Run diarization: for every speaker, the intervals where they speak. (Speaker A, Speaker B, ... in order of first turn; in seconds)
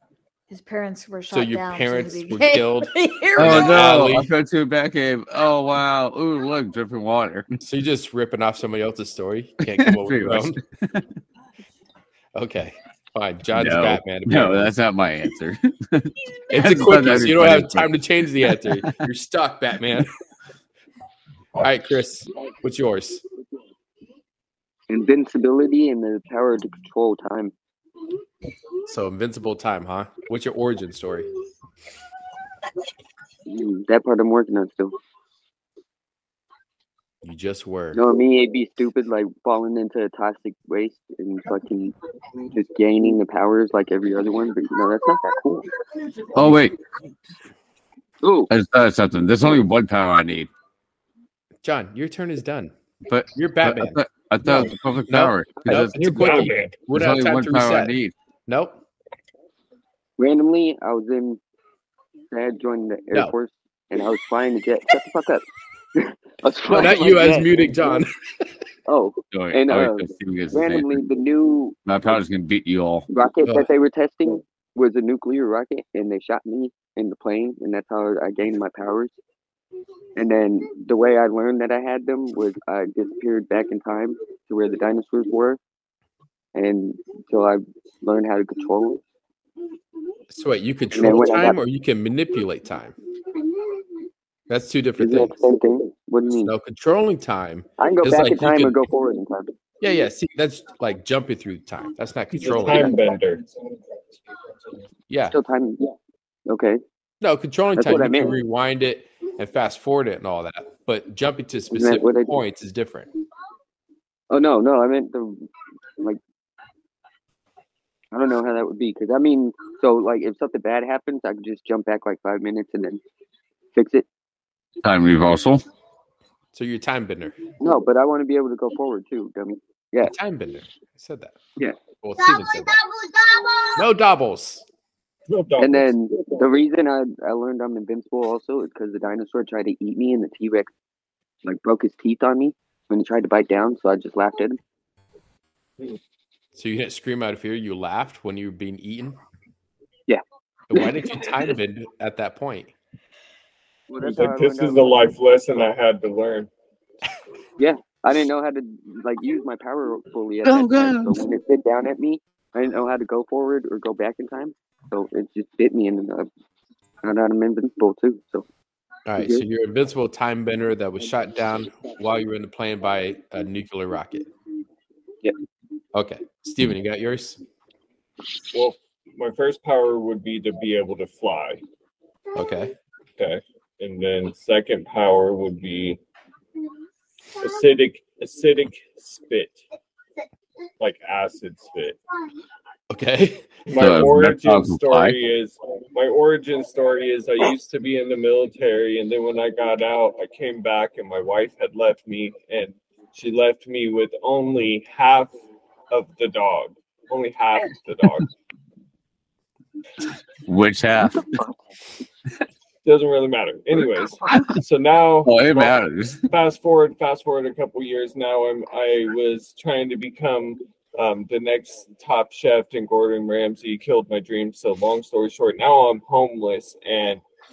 Speaker A: 0.5-3.8
Speaker B: 1.3-4.3, 7.6-10.6, 12.3-14.7, 16.5-20.1, 21.6-23.2, 28.9-31.3, 37.2-38.0, 51.6-52.7, 53.3-54.0, 55.1-58.0, 58.5-58.8, 66.7-68.1, 90.3-92.9, 94.5-95.4, 96.4-98.9, 99.8-103.0, 105.1-105.4, 107.2-113.1, 126.5-127.4, 130.0-131.4, 132.0-132.8, 133.7-134.7, 146.6-149.2, 150.7-152.7, 169.1-174.3, 175.9-177.4, 182.3-182.7, 192.9-193.5
Speaker C: 3.4-7.5, 9.6-11.0, 13.5-18.9, 46.3-46.8, 48.5-50.5, 53.1-58.1, 69.3-71.0, 71.8-73.0, 124.8-125.6, 160.4-161.2, 193.8-195.2, 210.4-211.4, 215.2-216.2
Speaker D: 24.9-27.5, 33.4-34.9, 37.9-41.9, 42.5-45.7, 48.2-48.5, 60.2-61.4, 62.3-65.5, 66.0-68.0, 68.8-72.2, 73.1-79.1, 80.2-85.6, 86.5-89.0, 90.9-91.6, 95.0-96.5, 97.8-99.5, 105.3-105.9, 106.5-106.8, 107.7-108.4, 111.7-112.3, 114.3-115.4, 118.1-123.0, 123.7-124.0, 127.6-130.2, 135.6-140.7, 141.4-144.6, 150.7-151.5, 153.9-155.1, 157.6-166.3, 167.0-168.4, 169.2-169.4
Speaker E: 56.0-56.7, 102.3-103.4, 135.3-135.9, 154.0-156.5, 178.5-181.6, 183.2-186.0, 187.4-189.6, 190.8-192.0, 193.7-205.3, 205.9-208.3, 212.8-227.2